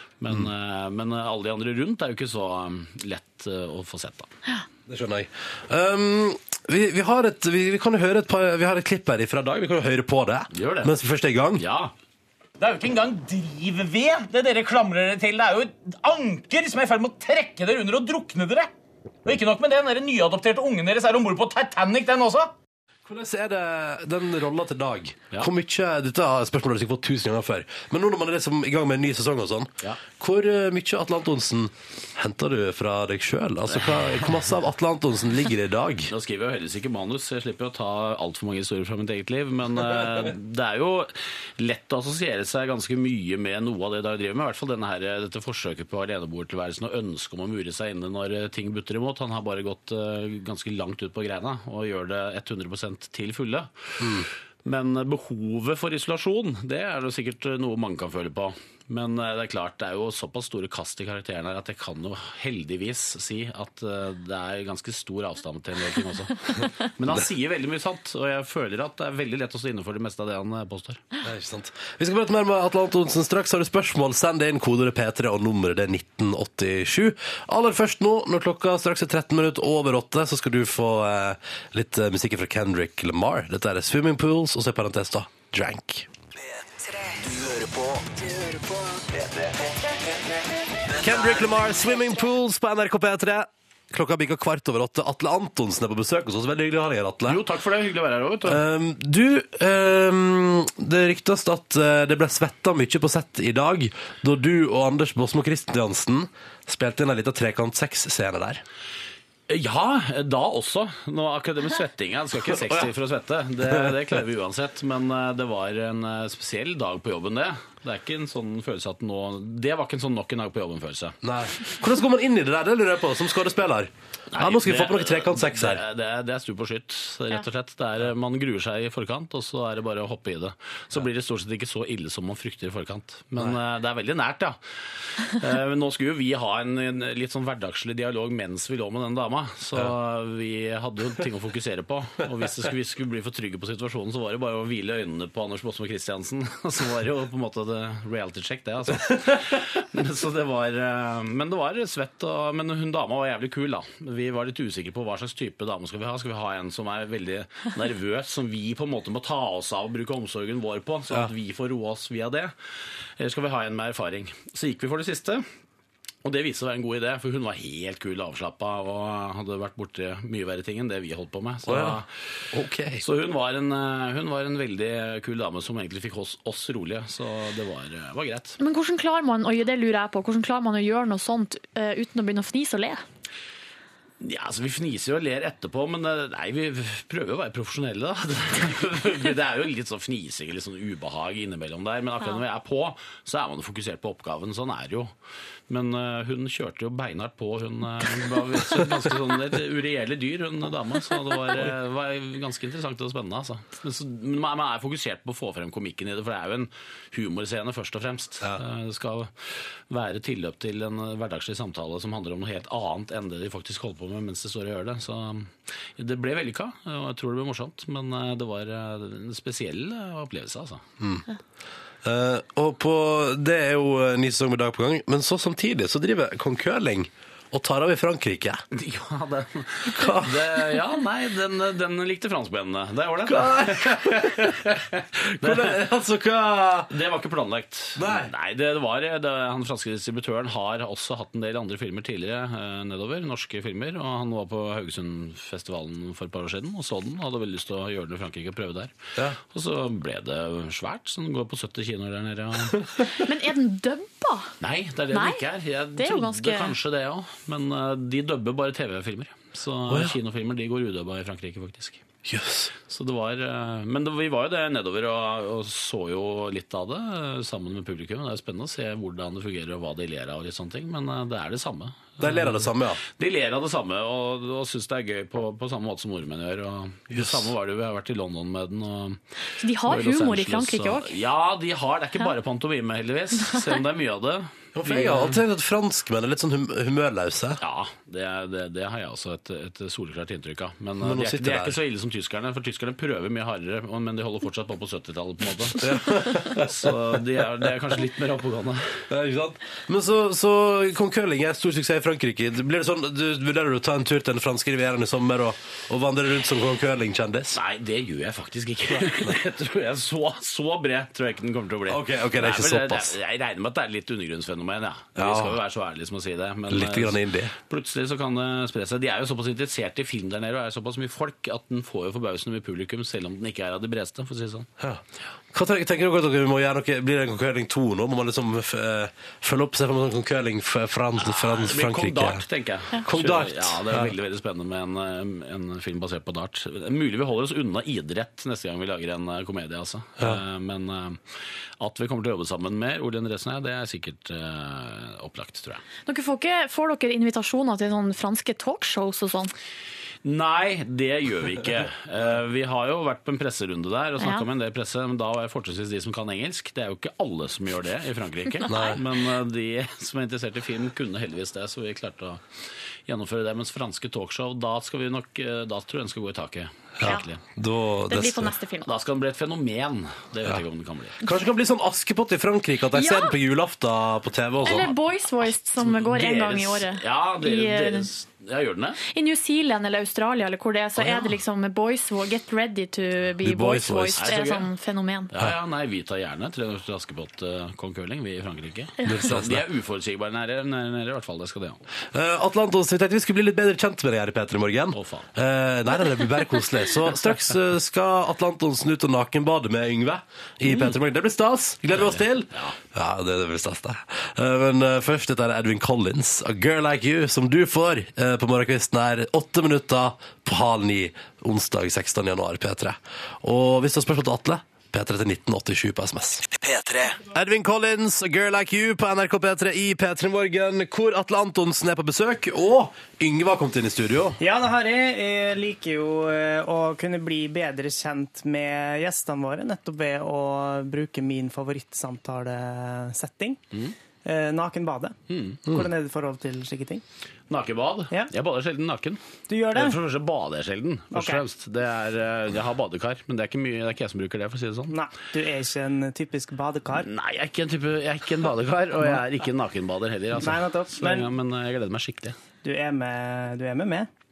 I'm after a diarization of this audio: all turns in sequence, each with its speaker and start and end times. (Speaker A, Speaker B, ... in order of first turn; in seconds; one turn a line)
Speaker A: 0.2-4.3
Speaker B: 4.9-11.6
Speaker A: 10.5-10.9
Speaker A: 11.6-11.9
Speaker C: 12.6-18.7
Speaker C: 19.2-22.5
Speaker B: 23.1-36.1
Speaker A: 33.7-34.4
Speaker A: 36.1-71.0
Speaker B: 54.0-54.3
Speaker B: 71.2-86.1
Speaker D: 86.4-90.2
Speaker D: 90.9-91.8
Speaker B: 91.0-97.4
Speaker A: 97.3-98.6
Speaker B: 98.5-108.6
Speaker A: 109.5-121.2
Speaker B: 112.5-112.9
Speaker B: 121.2-125.8
Speaker A: 124.3-134.6
Speaker A: 135.4-162.5
Speaker A: 163.2-165.4
Speaker A: 166.2-172.1
Speaker B: 171.7-173.0
Speaker A: 173.0-178.6
Speaker E: 178.6-183.0
Speaker A: 184.2-195.1
Speaker A: 195.7-209.3
Speaker A: 209.9-220.8
Speaker B: 222.0-228.6
Speaker A: 228.8-235.8
Speaker B: 229.9-230.6
Speaker B: 233.3-234.5
Speaker B: 235.4-236.9
Speaker A: 236.9-248.9
Speaker B: 238.0-238.3
Speaker A: 249.4-252.8
Speaker E: 253.2-254.5
Speaker A: 254.6-262.0
Speaker E: 255.1-255.4
Speaker E: 256.0-256.8
Speaker B: 259.9-260.1
Speaker B: 262.3-262.7
Speaker A: 262.8-272.6
Speaker B: 272.2-273.0
Speaker A: 273.2-279.2
Speaker B: 277.1-277.5
Speaker E: 279.6-281.2
Speaker A: 279.9-285.4
Speaker B: 284.8-287.6
Speaker A: 287.6-296.0
Speaker B: 291.0-291.8
Speaker B: 295.8-296.9
Speaker A: 296.5-298.8
Speaker B: 299.1-307.6
Speaker A: 307.5-324.7
Speaker B: 311.9-313.1
Speaker B: 315.2-315.6
Speaker B: 316.7-317.5
Speaker B: 325.5-332.4
Speaker A: 331.2-341.2
Speaker B: 333.0-334.1
Speaker A: 341.8-345.8
Speaker E: 346.1-349.5
Speaker A: 350.2-362.4
Speaker E: 358.6-359.0
Speaker B: 358.7-359.0
Speaker A: 363.1-367.4
Speaker B: 367.0-368.5
Speaker E: 367.0-367.3
Speaker E: 368.1-368.9
Speaker A: 368.9-371.2
Speaker B: 371.2-374.9
Speaker E: 372.9-373.3
Speaker E: 374.6-378.1
Speaker A: 375.8-379.0
Speaker E: 379.1-385.3
Speaker B: 383.4-384.3
Speaker A: 384.1-384.7
Speaker A: 385.3-391.8
Speaker B: 389.0-389.6
Speaker B: 392.1-416.5
Speaker A: 394.9-395.3
Speaker A: 401.9-402.8
Speaker D: 416.5-417.2
Speaker B: 417.3-424.4
Speaker F: 424.4-433.6
Speaker F: 434.2-437.0
Speaker A: 435.3-435.6
Speaker A: 437.5-439.2
Speaker F: 439.5-440.0
Speaker A: 439.7-444.9
Speaker F: 441.1-441.4
Speaker F: 444.9-447.1
Speaker A: 446.9-452.4
Speaker F: 450.3-451.3
Speaker F: 452.6-454.1